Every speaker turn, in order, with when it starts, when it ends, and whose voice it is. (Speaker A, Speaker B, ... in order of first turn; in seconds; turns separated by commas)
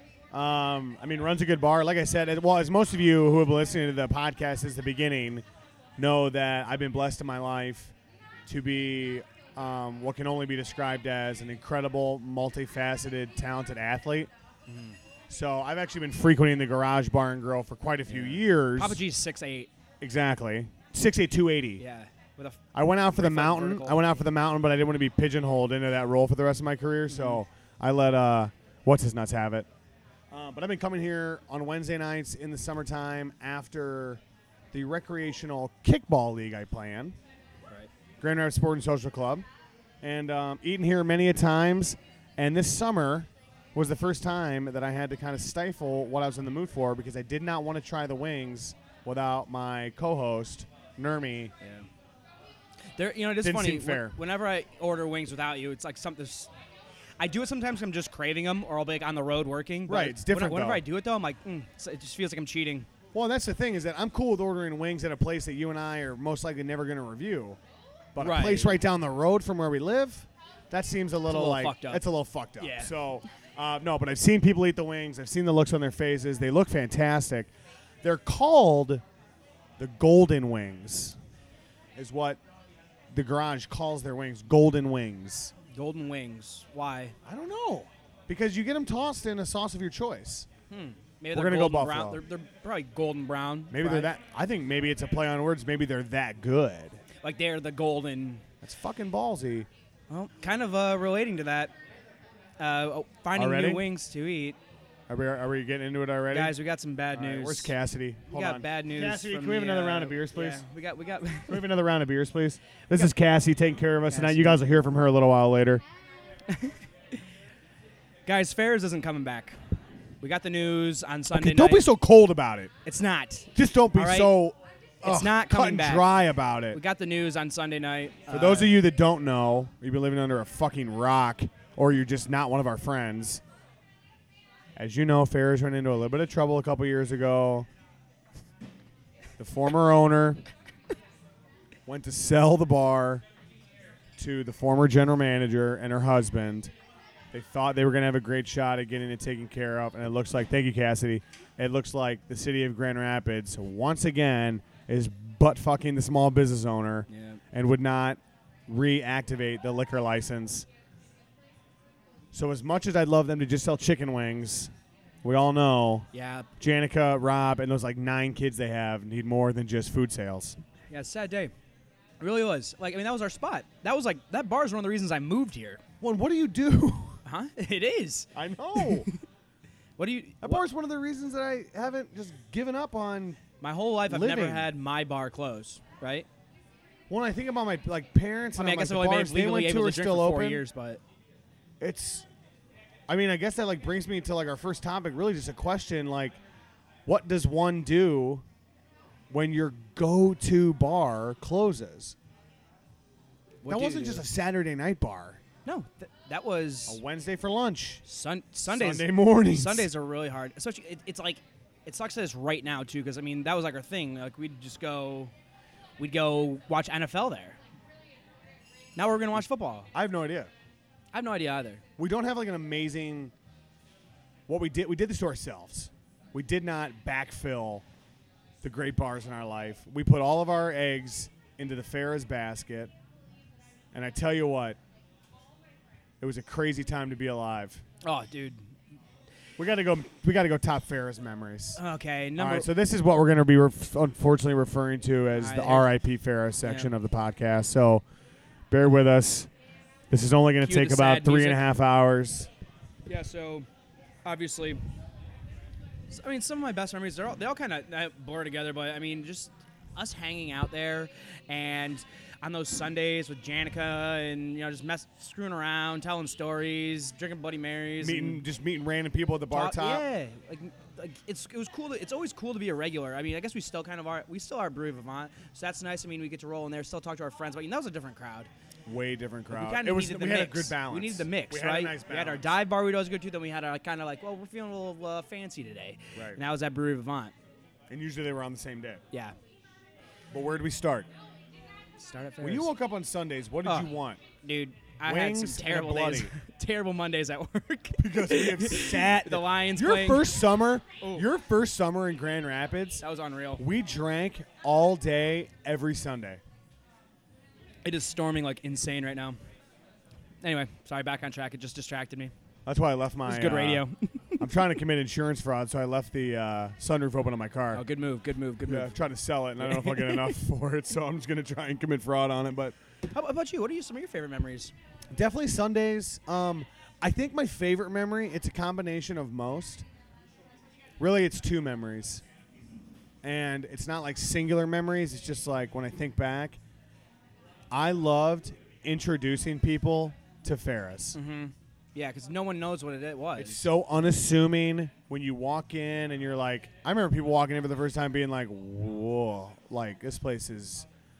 Speaker A: 0.3-5.4, Speaker A: 6.0-7.9, Speaker A: 8.4-14.3, Speaker B: 14.7-15.0, Speaker A: 15.3-19.0, Speaker B: 18.1-19.7, Speaker A: 20.0-21.8, Speaker B: 21.8-22.6, Speaker A: 22.7-29.7, Speaker B: 23.1-24.0, Speaker B: 27.1-27.4, Speaker A: 30.3-34.2, Speaker A: 34.7-37.2, Speaker A: 38.2-39.5, Speaker A: 40.0-51.5, Speaker B: 51.6-51.9, Speaker B: 53.0-56.5, Speaker A: 53.4-54.2, Speaker B: 57.2-62.9, Speaker A: 59.9-60.8, Speaker A: 63.1-67.6, Speaker A: 68.1-77.5, Speaker B: 68.2-68.8, Speaker B: 71.3-72.0, Speaker B: 72.6-72.9, Speaker A: 78.0-79.0, Speaker A: 79.8-81.2, Speaker A: 82.0-82.4, Speaker A: 83.1-85.5, Speaker B: 85.7-87.1, Speaker A: 87.2-90.5, Speaker B: 90.7-94.1, Speaker A: 91.3-92.2, Speaker A: 93.7-97.0, Speaker B: 97.2-98.4, Speaker A: 98.6-99.7, Speaker B: 100.1-101.7, Speaker B: 102.6-104.6, Speaker A: 103.3-103.9, Speaker A: 105.1-106.5, Speaker B: 106.3-107.7, Speaker A: 107.1-110.6, Speaker B: 108.3-111.6, Speaker A: 111.5-115.8, Speaker B: 114.1-114.6, Speaker B: 116.5-117.2, Speaker B: 118.2-119.6, Speaker B: 120.2-121.8, Speaker A: 121.3-122.7, Speaker B: 122.8-124.3, Speaker A: 123.5-126.8, Speaker B: 125.0-126.1, Speaker B: 126.7-128.8, Speaker A: 128.3-133.4, Speaker A: 134.8-137.7, Speaker A: 139.4-140.4, Speaker A: 141.9-143.2, Speaker A: 144.2-146.7, Speaker A: 147.3-160.7, Speaker B: 157.1-157.4, Speaker A: 162.3-164.7, Speaker A: 165.2-166.1, Speaker B: 166.1-166.5, Speaker A: 166.6-170.6, Speaker B: 170.9-171.5, Speaker B: 172.2-175.8, Speaker A: 176.0-177.2, Speaker B: 177.2-179.2, Speaker A: 178.3-179.1, Speaker B: 180.0-180.6, Speaker A: 180.4-183.4, Speaker B: 183.6-186.3, Speaker A: 184.0-184.7, Speaker A: 187.1-190.6, Speaker B: 188.5-191.0, Speaker A: 191.8-192.2, Speaker A: 193.1-196.4, Speaker A: 197.1-198.4, Speaker A: 199.3-202.2, Speaker B: 203.6-204.2, Speaker A: 203.6-205.4, Speaker B: 205.6-207.0, Speaker A: 206.9-208.0, Speaker B: 208.0-215.3, Speaker A: 208.7-209.9, Speaker B: 216.0-217.6, Speaker B: 218.9-219.9, Speaker A: 219.9-220.5, Speaker B: 221.1-221.8, Speaker A: 222.0-223.3, Speaker A: 224.5-227.8, Speaker A: 228.6-232.9, Speaker A: 233.9-234.8, Speaker A: 236.2-237.8, Speaker B: 238.0-238.7, Speaker A: 239.6-241.8, Speaker B: 241.8-242.7, Speaker A: 242.4-248.0, Speaker B: 245.3-245.9, Speaker B: 246.6-246.9, Speaker A: 248.7-249.5, Speaker A: 250.1-252.5, Speaker B: 250.6-251.6, Speaker B: 253.1-253.7, Speaker B: 254.2-254.8, Speaker B: 256.1-268.4, Speaker A: 268.0-270.0, Speaker B: 269.5-278.5, Speaker A: 278.9-282.5, Speaker B: 279.5-287.3, Speaker A: 286.1-286.4, Speaker A: 287.9-289.0, Speaker A: 290.3-291.1, Speaker B: 292.0-292.7, Speaker A: 292.4-294.2, Speaker B: 293.6-293.9, Speaker B: 294.4-300.3, Speaker A: 295.0-296.3, Speaker A: 298.0-303.0, Speaker B: 301.0-301.3, Speaker B: 303.0-303.6, Speaker A: 303.6-306.4, Speaker B: 307.8-309.4, Speaker B: 310.4-312.3, Speaker A: 312.6-313.8, Speaker B: 313.2-314.4, Speaker A: 314.4-317.8, Speaker B: 317.7-318.9, Speaker A: 318.6-322.7, Speaker B: 319.6-320.4, Speaker B: 323.1-324.7, Speaker A: 325.1-329.8, Speaker A: 331.0-332.2, Speaker A: 333.2-336.6, Speaker A: 337.7-341.2, Speaker B: 341.1-343.6, Speaker A: 343.4-350.9